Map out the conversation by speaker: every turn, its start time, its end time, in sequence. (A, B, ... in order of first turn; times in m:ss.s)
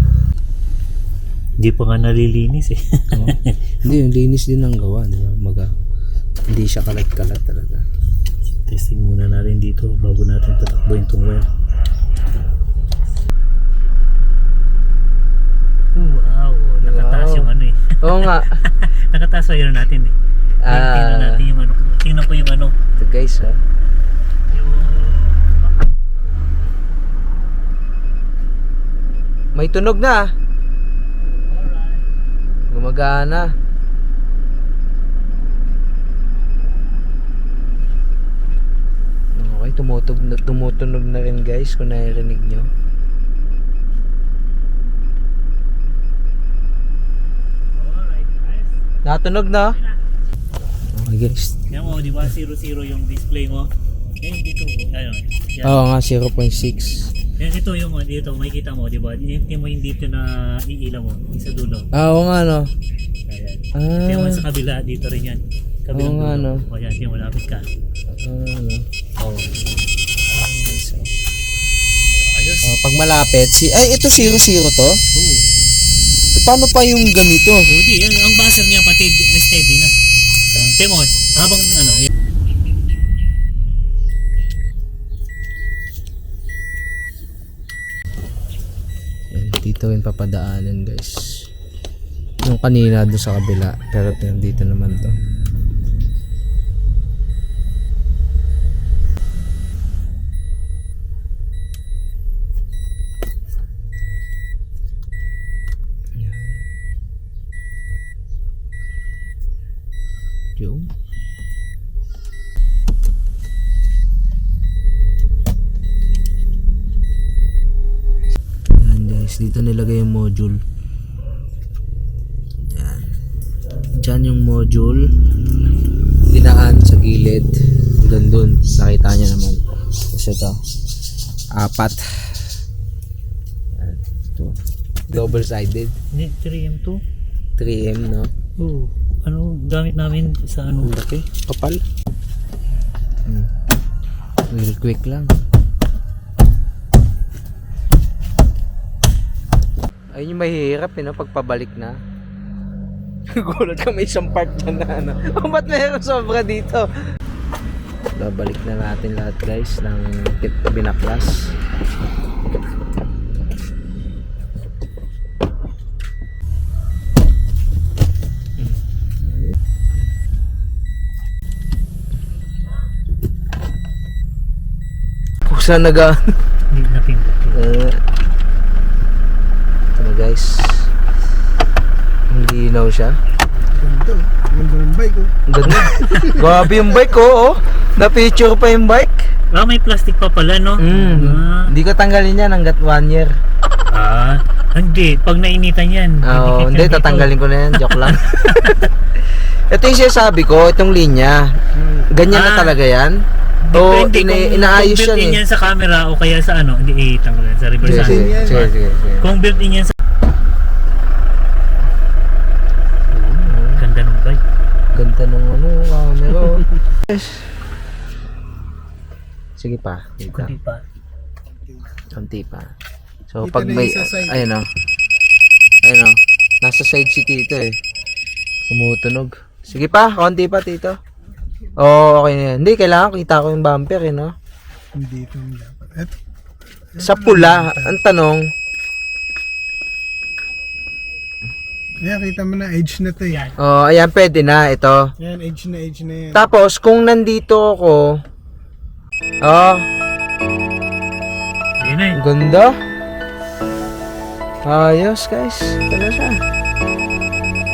0:01.6-0:03.6 A
0:03.1-0:05.7 B
0:06.5-0:07.8 B
0:08.7-0:11.5 A
0:16.0-0:22.8 A
0:16.8-0:17.5 B
0:18.0-0:18.5 B
0:20.6-0:21.4 B
0:23.0-0:23.6 B
0:24.5-0:25.8 A
0:29.6-0:30.3 B
0:31.5-0:32.1 A
0:32.7-0:33.5 B
0:39.4-0:42.7 B
0:47.8-0:48.8 A
0:49.0-0:49.8 B
0:50.9-0:51.9 B
0:51.7-0:55.8 A
0:55.6-0:57.1 B
0:57.4-1:01.9 A
1:01.9-1:02.7 B
1:03.3-1:07.7 A
1:03.8-1:04.4 B
1:05.9-1:06.6 B
1:08.2-1:08.9 B
1:09.2-1:09.5 A
1:10.3-1:11.2 B
1:12.1-1:12.7 A
1:12.6-1:15.0 B
1:15.2-1:15.5 A
1:16.3-1:17.6 B
1:17.7-1:19.9 A
1:20.5-1:22.1 A
1:29.3-1:31.5 B
1:32.4-1:35.2 B
1:46.2-1:46.6 B
1:50.6-1:50.9 B
1:58.8-2:00.6 B
2:02.7-2:03.2 B
2:04.0-2:05.1 B
2:06.3-2:10.6 B
2:11.6-2:12.6 B
2:13.7-2:14.6 B
2:15.1-2:15.9 B
2:15.1-2:15.4 A
2:16.1-2:17.0 A
2:17.6-2:18.3 B
2:18.6-2:20.9 A
2:20.8-2:21.8 B
2:24.5-2:25.3 B
2:30.1-2:32.0 B
2:33.3-2:36.9 B
2:38.2-2:41.5 B
2:48.6-2:49.6 B
2:55.4-2:56.2 B
2:56.7-2:57.8 A
2:57.5-2:58.0 B
2:59.9-3:00.9 B
3:02.3-3:03.2 B
3:03.7-3:06.9 C
3:05.5-3:09.3 B
3:09.5-3:11.7 A
3:10.8-3:13.3 B
3:13.9-3:18.9 A
3:16.2-3:21.5 B
3:21.8-3:22.1 C
3:22.1-3:23.2 B
3:22.3-3:22.8 A
3:23.6-3:29.9 A
3:23.7-3:25.4 B
3:27.8-3:28.7 C
3:27.8-3:29.3 B
3:33.1-3:34.4 A
3:33.4-3:33.8 B
3:34.9-3:37.5 B
3:39.6-3:40.6 B
3:40.3-3:40.8 A
3:42.1-3:42.7 B
3:43.3-3:44.7 B
3:43.4-3:44.5 C
3:45.8-3:47.8 B
3:48.7-3:51.0 B
3:51.8-3:54.3 B
3:54.9-3:56.2 C
3:56.9-3:58.0 C
3:57.0-3:58.5 B
4:02.0-4:03.4 C
4:03.3-4:03.6 A
4:03.6-4:05.0 B
4:05.2-4:06.5 C
4:06.3-4:08.2 B
4:09.4-4:09.8 B
4:11.8-4:12.2 A
4:12.1-4:12.8 B
4:14.6-4:16.4 B